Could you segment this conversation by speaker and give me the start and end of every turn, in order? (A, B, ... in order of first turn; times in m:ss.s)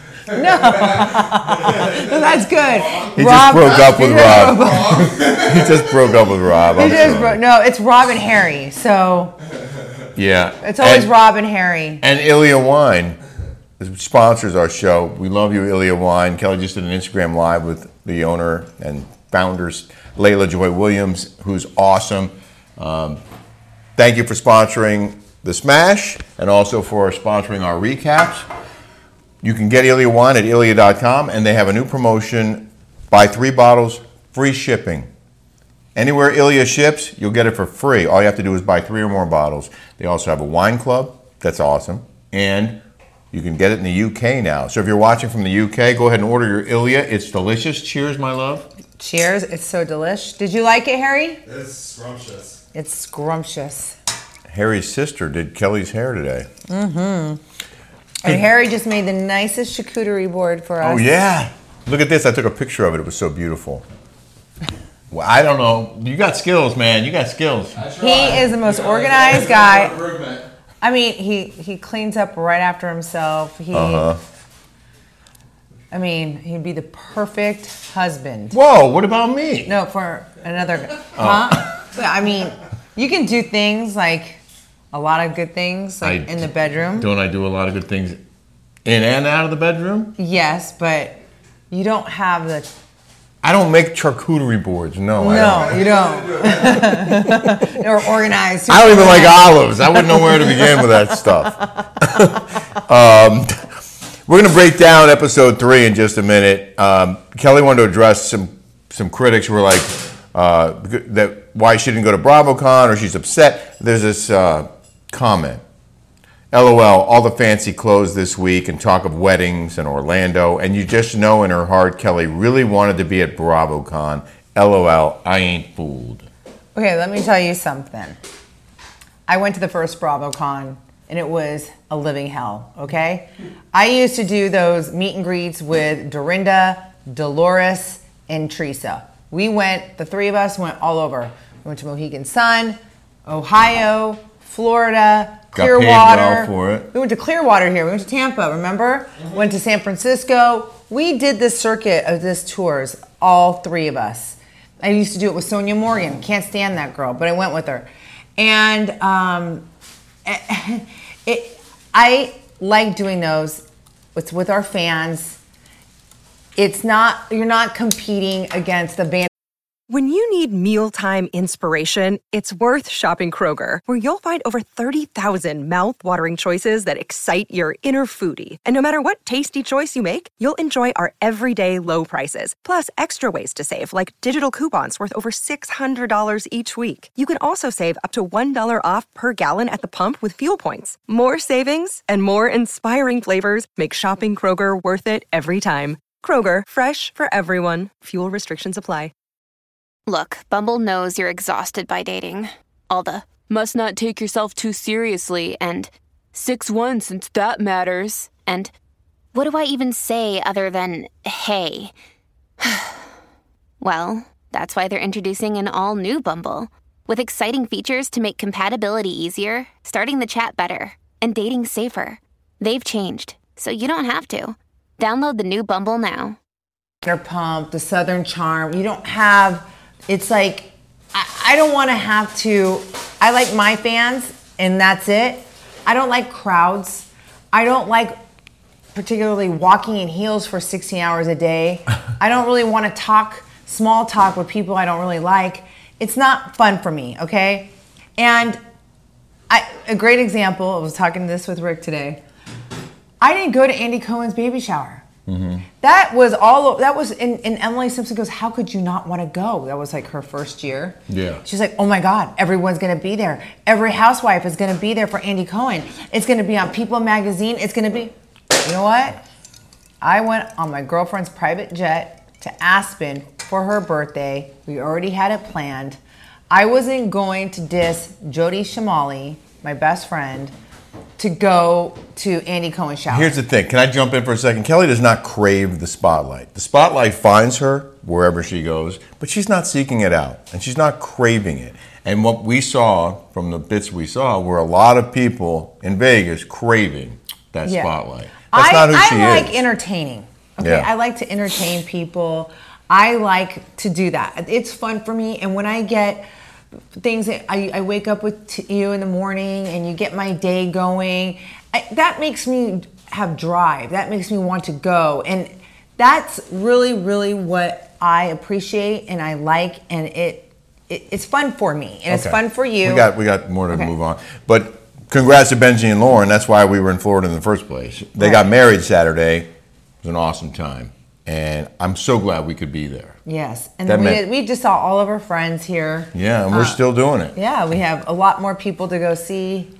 0:00.3-0:05.1 A
0:00.7-0:03.1 B
0:03.1-0:07.4 C
0:04.2-0:06.2 B
0:06.7-0:09.3 A
0:10.1-0:11.1 C
0:10.6-0:12.0 A
0:12.0-0:13.2 C
0:13.8-0:23.2 C
0:24.0-0:28.4 C
0:29.4-0:35.1 C
0:35.9-0:42.8 C
0:43.3-0:48.7 C
0:49.0-0:51.4 A
0:51.4-0:52.6 B
0:52.7-0:53.9 A
0:54.5-0:56.5 C
0:56.7-0:57.4 A
0:58.2-1:01.0 A
1:00.8-1:03.8 C
1:05.1-1:07.8 C
1:07.7-1:10.5 B
1:08.0-1:10.0 A
1:10.8-1:14.1 A
1:13.7-1:14.2 C
1:15.9-1:18.6 A
1:18.5-1:19.7 C
1:19.6-1:24.4 A
1:21.2-1:21.7 C
1:24.9-1:27.1 A
1:26.0-1:28.2 C
1:28.8-1:30.1 C
1:30.2-1:32.7 A
1:33.4-1:35.8 C
1:35.2-1:41.2 A
1:35.3-1:37.2 B
1:36.8-1:37.6 C
1:38.7-1:43.6 C
1:44.3-1:55.6 C
1:56.5-2:06.3 C
2:06.7-2:08.2 A
2:09.3-2:39.6 A
2:25.5-2:26.9 C
2:40.2-2:43.6 A
2:44.1-2:45.4 A
2:46.6-2:49.3 A
2:49.9-3:19.1 D
3:20.1-3:28.7 E
3:29.3-3:31.9 E
3:32.6-3:33.0 E
3:33.8-3:46.4 E
3:47.0-3:58.2 A
3:58.9-4:08.6 A
4:09.5-4:12.2 A
4:13.2-4:15.0 A
4:15.3-4:15.6 C
4:15.8-4:29.2 A
4:21.1-4:21.4 C
4:30.0-4:36.0 A
4:36.5-4:40.5 A
4:41.2-4:43.3 A
4:43.1-4:59.6 C
4:57.6-5:06.2 A
5:00.6-5:00.9 C
5:06.9-5:23.1 A
5:22.1-5:29.5 C
5:28.2-5:28.4 A
5:30.0-5:33.2 C
5:33.2-5:36.8 A
5:33.8-5:34.2 C
5:36.1-5:37.3 C
5:37.3-5:39.7 A